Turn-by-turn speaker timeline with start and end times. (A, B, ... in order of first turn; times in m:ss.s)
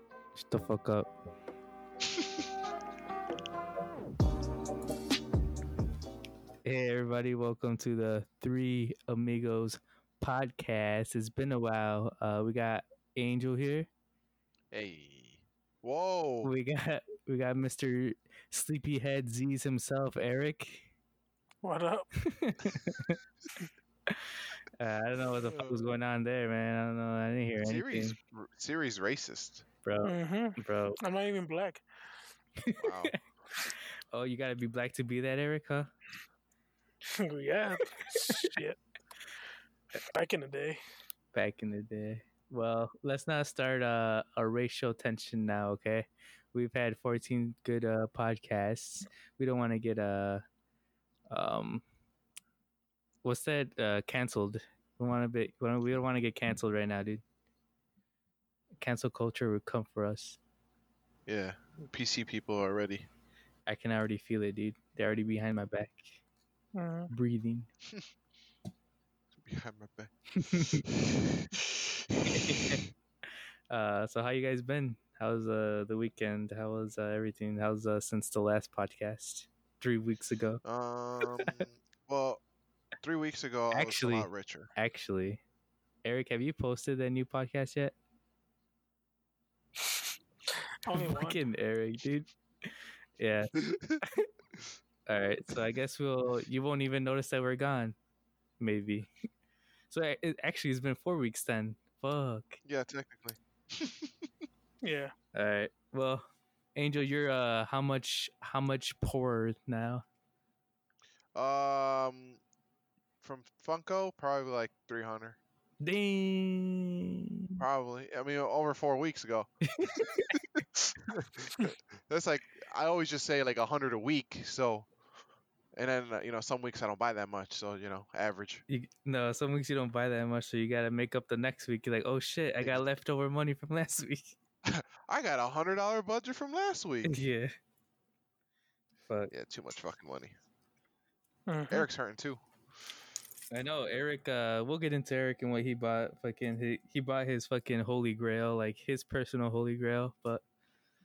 0:00.4-0:01.1 A
0:06.6-0:13.9 A
0:14.7-0:16.5 B
0:16.4-0:20.9 A
0:21.6-0:22.1 C
0:22.2-0:23.2 A
0:24.1-0:28.2 A
0:25.4-0:25.9 B
0:27.6-0:29.6 B
0:29.8-0:31.0 A
0:30.0-0:31.8 C
0:32.6-0:33.2 A
0:32.8-0:33.2 B
0:34.1-0:35.9 A
0:37.1-0:38.8 C
0:38.0-0:38.6 A
0:40.0-0:40.8 C
0:41.3-0:50.4 A
0:51.3-0:51.8 A
0:53.2-0:57.2 A
0:58.8-1:00.4 A
1:01.3-1:03.1 B
1:03.7-1:06.2 A
1:06.8-1:07.1 C
1:07.1-1:07.7 A
1:09.3-1:12.9 B
1:10.4-1:10.9 A
1:12.3-1:12.8 A
1:13.7-1:20.6 A
1:20.6-1:22.4 B
1:21.2-1:21.6 A
1:23.0-1:24.7 B
1:23.7-1:25.4 A
1:26.0-1:28.0 A
1:30.8-1:31.4 C
1:30.9-1:34.3 A
1:33.6-1:34.0 B
1:35.1-1:38.0 A
1:38.6-1:39.1 A
1:39.9-1:42.6 A
1:42.6-1:44.3 B
1:44.8-1:45.1 C
1:45.3-1:50.0 A
1:51.4-1:52.4 B
1:53.2-1:55.4 B
1:55.8-1:57.6 A
1:57.6-1:59.5 B
1:59.6-2:00.4 A
2:00.3-2:04.9 B
2:05.7-2:08.6 B
2:08.7-2:14.4 A
2:14.6-2:17.2 B
2:17.0-2:17.5 A
2:19.3-2:20.3 B
2:21.5-2:21.9 C
2:21.7-2:22.4 B
2:23.5-2:30.4 A